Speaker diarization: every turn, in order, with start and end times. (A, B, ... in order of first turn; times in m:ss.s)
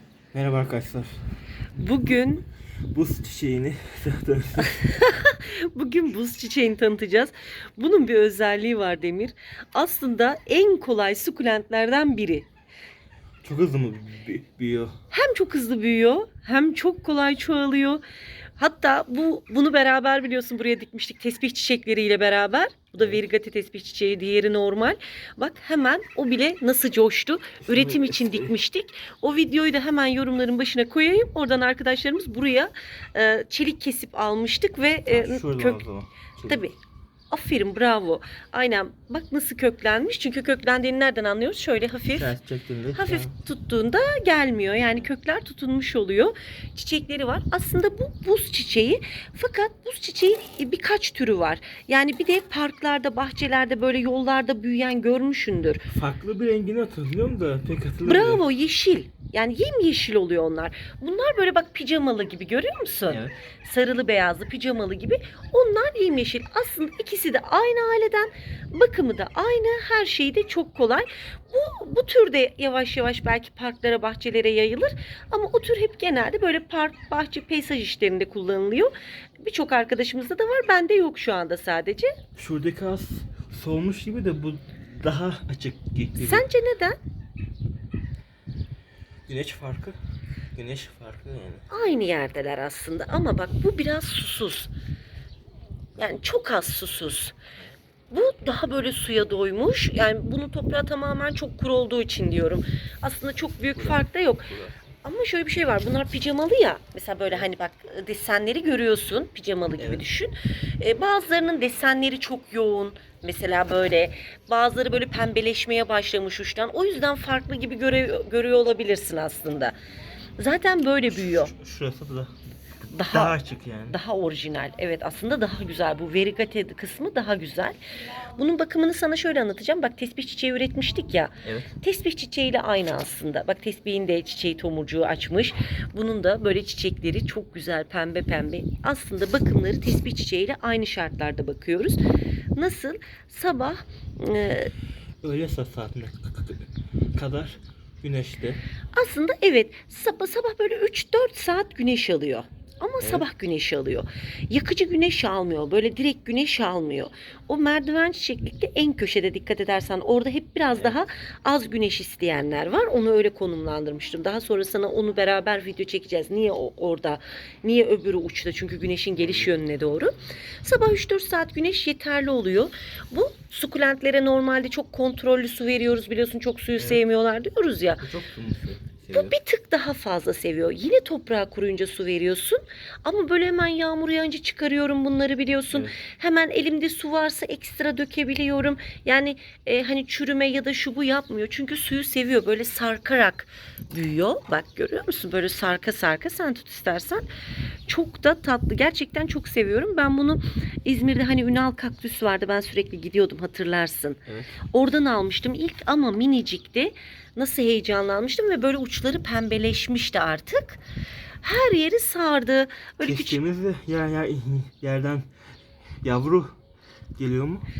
0:00.3-0:01.1 A
0:01.8-0:02.4 B
0:02.9-0:04.9 A
0:04.6-0:12.5 B
0:13.4-0:14.9 A
0:15.1-0:18.0 B
0:18.6-0:35.8 B
0:27.6-0:28.5 A
0:35.1-0:36.6 A
0:36.5-0:36.8 B
0:37.3-0:42.3 B
0:42.1-0:43.3 A
0:42.9-0:55.8 B
0:55.9-0:58.4 A
0:58.0-1:22.1 B
1:03.1-1:03.3 A
1:22.4-1:26.5 A
1:26.2-1:27.0 B
1:29.3-1:30.0 A
1:30.5-1:31.6 A
1:31.7-1:34.7 B
1:36.0-1:37.3 B
1:38.1-1:44.5 B
1:43.8-1:44.9 A
1:45.0-1:59.7 B
2:00.4-2:01.5 B
2:01.3-2:02.3 A
2:02.9-2:03.3 B
2:03.1-2:04.0 A
2:03.9-2:07.8 B
2:08.3-2:22.0 B
2:11.4-2:11.7 A
2:22.5-2:24.7 B
2:25.2-2:28.6 A
2:28.9-2:50.1 B
2:49.2-2:49.5 A
2:50.6-2:58.0 B
2:58.0-2:59.3 A
2:59.1-3:17.2 B
3:17.9-3:24.2 B
3:24.7-3:30.8 B
3:31.4-3:33.4 B
3:33.0-3:35.3 A
3:36.0-3:36.6 A
3:37.2-3:37.7 A